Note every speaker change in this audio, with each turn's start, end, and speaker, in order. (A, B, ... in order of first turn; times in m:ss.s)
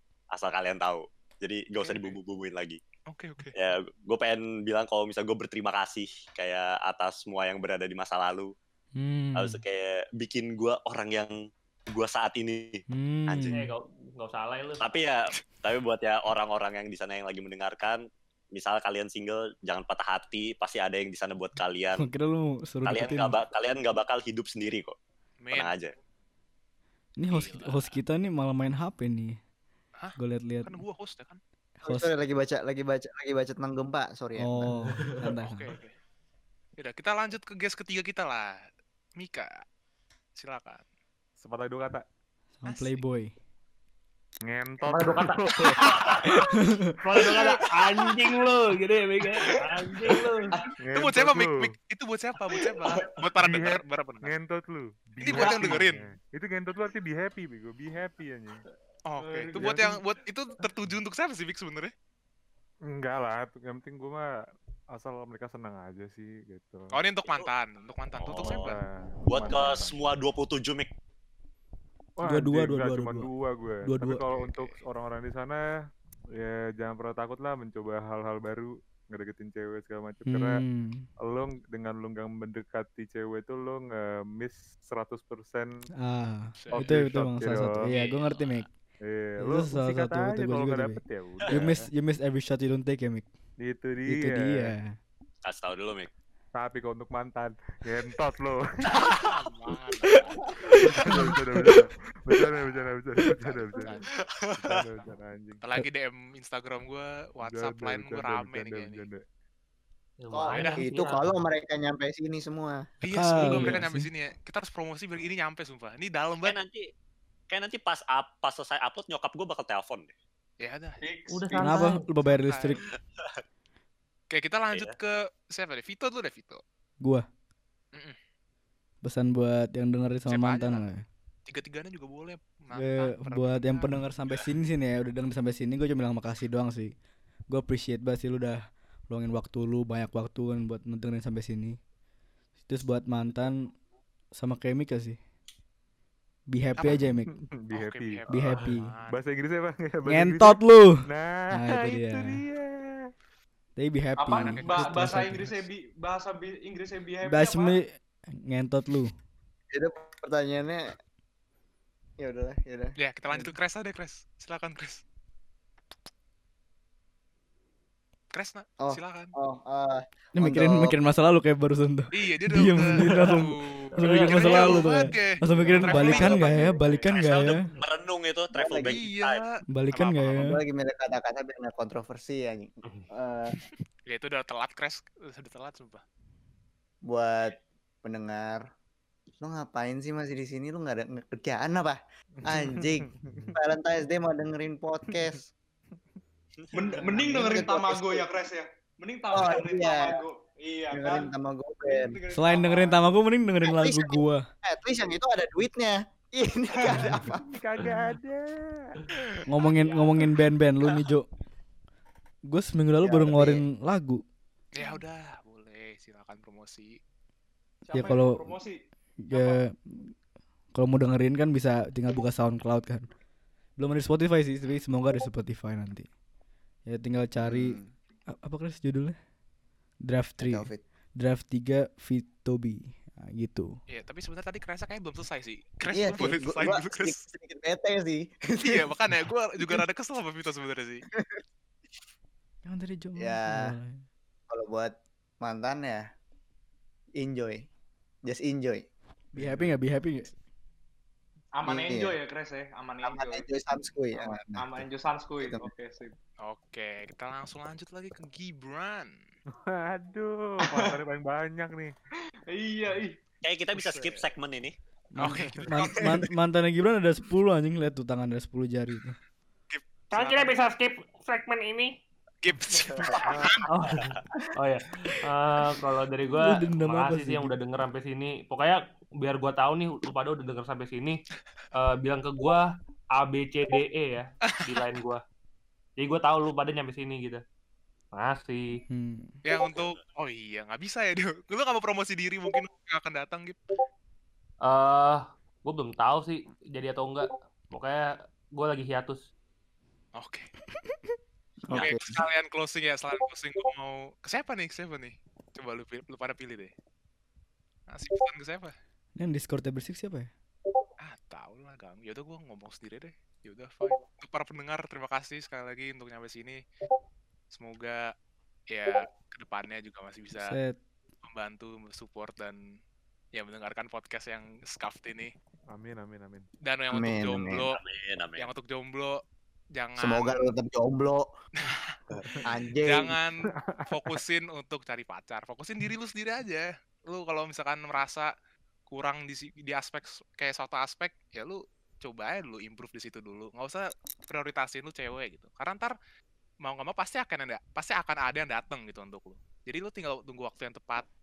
0:00.3-0:02.8 A
0:01.8-0:02.2 B
0:03.1-0:03.6 B
0:03.5-0:08.5 A
0:09.0-0:09.6 C
0:09.4-0:11.3 A
0:11.9-0:13.6 A
0:12.9-0:13.6 C
0:13.5-0:14.9 D
0:14.8-0:18.0 A
0:18.5-0:22.1 A
0:22.0-0:23.4 C
0:22.8-0:25.0 A
0:25.4-0:25.7 B
0:25.5-0:25.9 A
0:27.2-0:29.4 C
0:27.3-0:27.9 B
0:30.0-0:31.4 B
0:30.2-0:30.8 C
0:31.8-0:32.1 C
0:31.8-0:34.7 E
0:34.4-0:35.7 C
0:35.4-0:35.9 B
0:36.8-0:38.6 B
0:39.2-0:39.6 B
0:40.4-0:40.8 B
0:41.4-0:42.0 F
0:42.6-0:43.3 C
0:42.7-0:43.0 B
0:44.5-0:46.5 F
0:44.9-0:46.4 D
0:46.5-0:46.9 C
0:47.0-0:50.6 D
0:47.1-0:48.2 F
0:49.4-0:50.2 F
0:50.8-0:51.8 F
0:50.9-0:54.3 B
0:52.5-0:53.0 G
0:53.4-0:58.6 F
0:55.2-0:56.0 B
0:55.3-0:55.8 G
0:59.1-1:01.9 B
0:59.2-0:59.9 G
0:59.6-0:59.9 F
1:02.9-1:04.3 F
1:04.9-1:06.9 F
1:06.9-1:08.8 B
1:08.2-1:08.7 A
1:08.5-1:10.0 F
1:09.3-1:10.9 A
1:12.2-1:15.6 F
1:12.2-1:13.3 C
1:13.8-1:14.2 C
1:14.3-1:14.8 B
1:16.4-1:20.6 F
1:20.3-1:21.1 C
1:21.2-1:25.7 F
1:26.0-1:28.7 C
1:26.6-1:26.9 B
1:26.7-1:27.9 F
1:27.9-1:28.7 B
1:29.0-1:31.9 F
1:29.4-1:33.3 C
1:33.6-1:34.8 F
1:34.1-1:35.0 C
1:35.4-1:36.1 A
1:36.6-1:38.9 F
1:39.0-1:40.4 B
1:40.8-1:44.0 F
1:43.7-1:44.0 B
1:44.2-1:44.8 A
1:44.6-1:45.6 F
1:45.6-1:49.1 B
1:47.4-1:49.2 F
1:50.2-1:51.3 D
1:50.3-1:52.8 E
1:50.5-1:50.8 B
1:53.0-1:56.6 B
1:53.1-1:54.1 C
1:56.4-1:56.9 A
1:57.5-2:00.1 A
2:00.6-2:01.0 B
2:01.0-2:01.9 G
2:01.3-2:02.0 D
2:01.6-2:02.8 C
2:02.2-2:02.9 B
2:04.3-2:06.6 B
2:04.7-2:05.0 A
2:09.0-2:11.0 C
2:10.3-2:10.8 B
2:11.5-2:13.9 B
2:12.7-2:16.9 C
2:17.5-2:21.8 C
2:22.7-2:23.7 C
2:24.4-2:25.2 C
2:26.5-2:27.3 C
2:26.8-2:27.1 B
2:27.3-2:33.1 F
2:27.7-2:29.2 B
2:28.3-2:28.9 C
2:30.1-2:32.4 C
2:33.8-2:35.6 C
2:34.2-2:37.8 G
2:34.3-2:35.2 B
2:37.3-2:39.1 C
2:39.7-2:40.9 E
2:42.2-2:43.4 E
2:43.0-2:45.0 B
2:48.3-2:49.4 B
2:48.8-2:51.0 E
2:50.4-2:57.7 C
2:52.1-2:57.6 B
2:53.1-2:53.4 D
2:53.9-2:55.0 D
2:55.5-2:57.1 G
2:55.9-2:56.8 E
2:57.2-2:59.4 A
2:58.5-2:59.0 E
2:58.8-3:00.5 B
2:59.7-3:00.6 C
3:00.4-3:03.6 E
3:04.1-3:06.0 B
3:07.1-3:08.6 E
3:09.4-3:15.4 E
3:12.4-3:13.6 F
3:15.1-3:15.4 F
3:16.6-3:17.0 A
3:16.7-3:21.3 G
3:17.0-3:18.3 E
3:19.3-3:20.2 E
3:20.9-3:22.2 E
3:21.8-3:23.1 G
3:22.4-3:24.4 C
3:23.6-3:27.4 E
3:26.9-3:29.0 F
3:29.5-3:31.3 C
3:29.7-3:30.2 G
3:32.5-3:34.2 C
3:33.0-3:33.6 E
3:34.7-3:37.0 B
3:37.8-3:38.8 G
3:37.9-3:38.5 C
3:39.2-3:40.1 C
3:39.3-3:39.6 G
3:40.7-3:43.1 C
3:43.8-3:46.1 C
3:46.9-3:49.2 C
3:47.4-3:47.9 E
3:50.0-3:53.8 C
3:50.4-3:50.8 E
3:53.9-3:57.2 B
3:55.9-3:59.8 E
3:58.6-4:01.0 B
4:01.2-4:01.4 E
4:02.6-4:04.0 C
4:03.2-4:03.8 E
4:04.5-4:06.0 E
4:07.2-4:07.7 E
4:08.3-4:08.9 E
4:09.3-4:10.3 C
4:09.4-4:09.8 F
4:11.6-4:13.5 G
4:11.7-4:12.2 E
4:13.0-4:14.8 E
4:14.2-4:16.1 G
4:15.4-4:15.7 E
4:16.4-4:19.1 B
4:19.5-4:21.9 F
4:20.6-4:21.0 G
4:22.5-4:23.2 G
4:23.4-4:24.8 A
4:23.8-4:24.2 F
4:25.1-4:29.2 C
4:25.2-4:26.3 B
4:29.7-4:30.5 B
4:30.1-4:32.0 D
4:32.4-4:33.6 B
4:33.7-4:41.2 D
4:36.4-4:37.5 C
4:41.7-4:45.2 D
4:44.5-4:44.8 B
4:46.0-4:47.4 D
4:48.1-4:48.8 D
4:48.9-4:49.4 C
4:49.4-4:53.6 B
4:49.5-4:50.0 A
4:54.6-4:59.3 D
5:00.2-5:00.5 B
5:01.7-5:02.2 E
5:01.7-5:06.7 B
5:01.7-5:02.0 A
5:07.9-5:08.7 B
5:09.2-5:10.3 C
5:11.0-5:16.6 B
5:17.5-5:18.1 B
5:18.7-5:20.6 B
5:20.3-5:20.8 C
5:21.2-5:22.6 B
5:23.3-5:25.3 B
5:25.7-5:26.5 F
5:26.6-5:27.8 B
5:26.9-5:27.6 E
5:27.7-5:28.5 A
5:28.4-5:29.2 B
5:29.8-5:30.5 B
5:30.0-5:31.3 E
5:31.6-5:32.0 B
5:32.4-5:33.2 E
5:32.8-5:38.3 B
5:33.5-5:34.2 F
5:38.9-5:46.0 B
5:46.6-5:51.0 B